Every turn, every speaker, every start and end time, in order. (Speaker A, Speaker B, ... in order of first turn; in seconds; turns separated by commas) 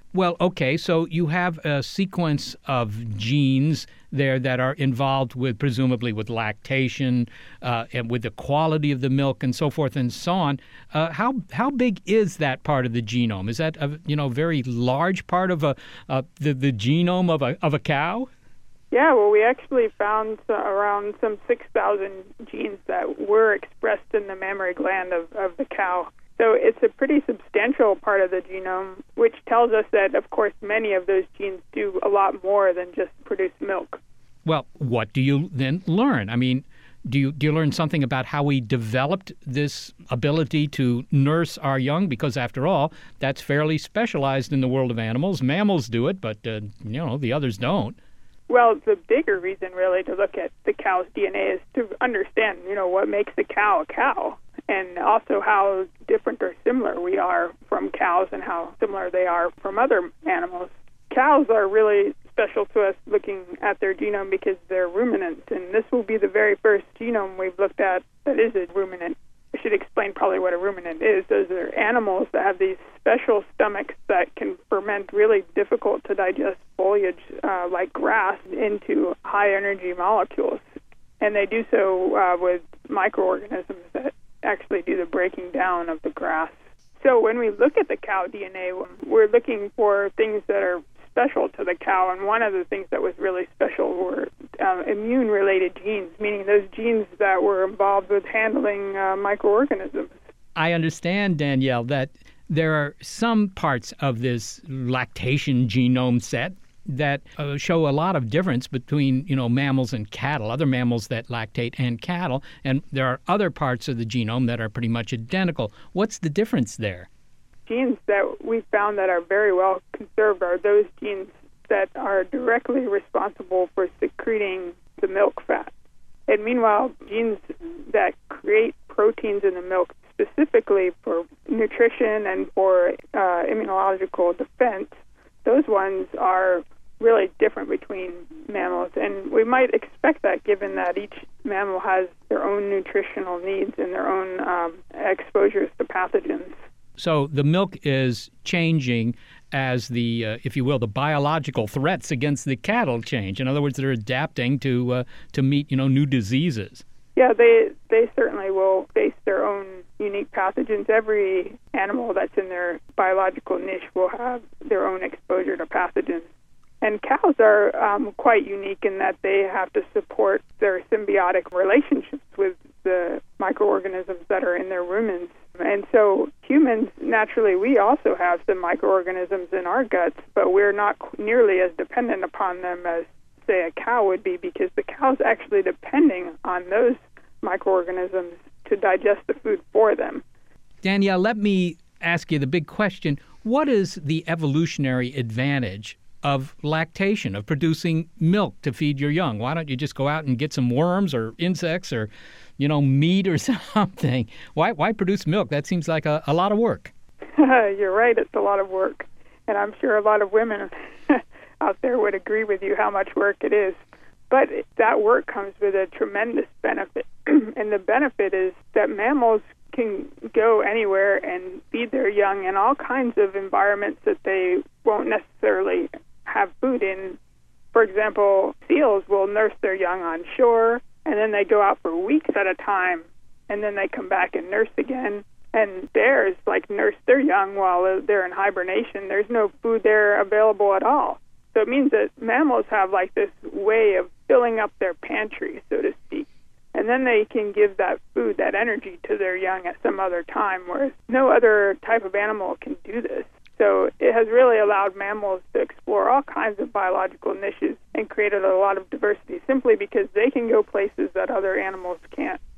Speaker A: 0.1-18.3, Speaker B: 18.9-34.0, Speaker A: 34.4-48.0, Speaker B: 48.5-80.6, Speaker B: 81.2-100.1, Speaker A: 100.5-117.1, Speaker B: 117.7-125.7, Speaker B: 126.3-134.9, Speaker B: 135.4-146.6, Speaker A: 147.0-156.8, Speaker B: 157.2-166.2, Speaker B: 166.8-190.2, Speaker A: 190.8-206.9, Speaker B: 207.3-213.8, Speaker B: 214.3-227.2, Speaker B: 227.7-262.4